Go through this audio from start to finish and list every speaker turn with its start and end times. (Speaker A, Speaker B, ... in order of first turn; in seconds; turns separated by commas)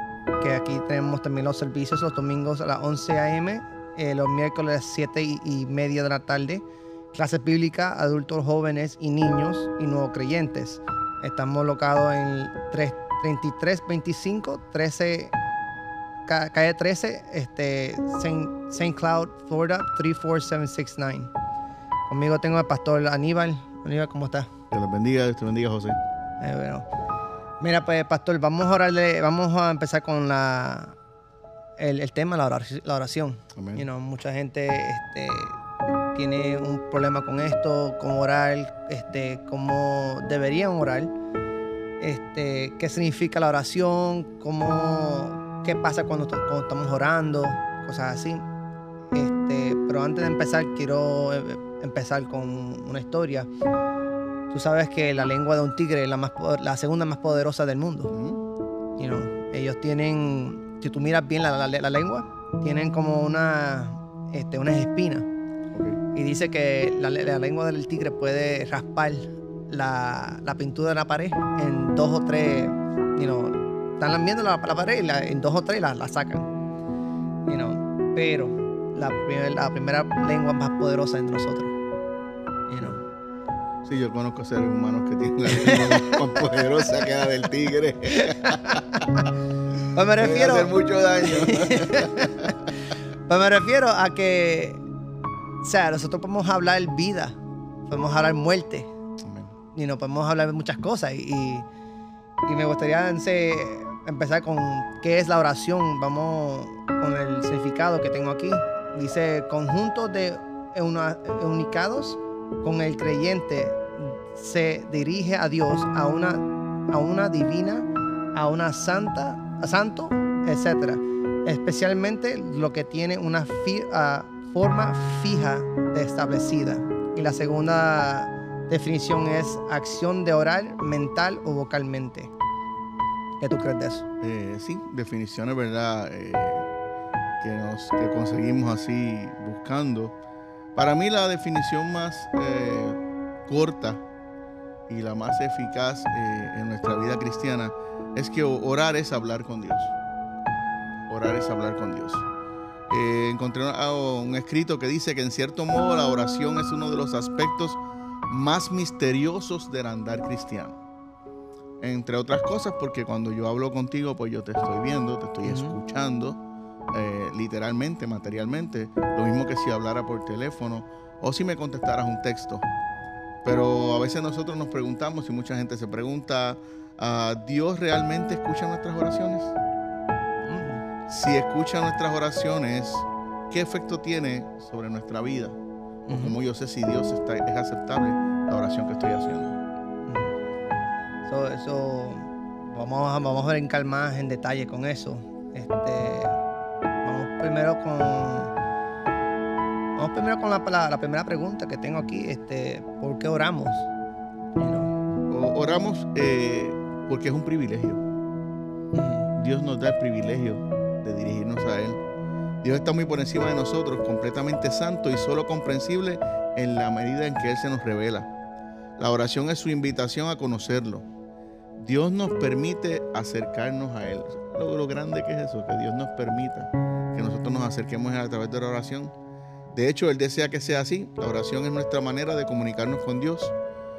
Speaker A: 0.4-15.3, Speaker A: 16.3-21.3, Speaker A: 22.1-24.5, Speaker B: 24.7-26.0, Speaker A: 26.4-26.9, Speaker A: 27.6-30.9, Speaker A: 31.8-35.6, Speaker B: 33.5-33.9, Speaker A: 36.1-41.1, Speaker A: 42.0-48.5, Speaker A: 49.1-53.5, Speaker A: 54.5-58.1, Speaker B: 58.1-58.4, Speaker A: 59.0-65.3, Speaker B: 65.7-66.0, Speaker A: 66.1-76.5, Speaker A: 77.5-81.7, Speaker A: 82.7-83.0, Speaker B: 83.8-89.3, Speaker A: 85.5-87.3, Speaker A: 88.0-89.3, Speaker A: 89.9-94.8, Speaker B: 90.2-92.5, Speaker A: 95.6-98.9, Speaker B: 99.2-99.5, Speaker A: 99.7-101.7, Speaker A: 102.5-132.3, Speaker A: 133.4-134.1, Speaker B: 134.2-136.7, Speaker B: 137.4-140.2, Speaker B: 140.7-144.0, Speaker B: 144.9-149.9, Speaker B: 151.1-152.3, Speaker B: 152.9-160.8, Speaker B: 161.8-166.4, Speaker A: 165.4-165.8, Speaker B: 166.9-172.7, Speaker B: 173.4-179.5, Speaker A: 180.4-180.8, Speaker B: 181.1-185.6, Speaker A: 186.1-186.4, Speaker B: 186.1-189.5, Speaker A: 190.1-190.3, Speaker A: 191.2-196.4, Speaker A: 197.0-198.5, Speaker A: 199.9-203.9, Speaker A: 204.6-204.9, Speaker B: 205.3-208.0, Speaker A: 208.9-209.3, Speaker B: 209.3-212.0, Speaker B: 212.6-218.3, Speaker B: 219.0-221.1, Speaker B: 221.8-229.1, Speaker B: 229.7-233.5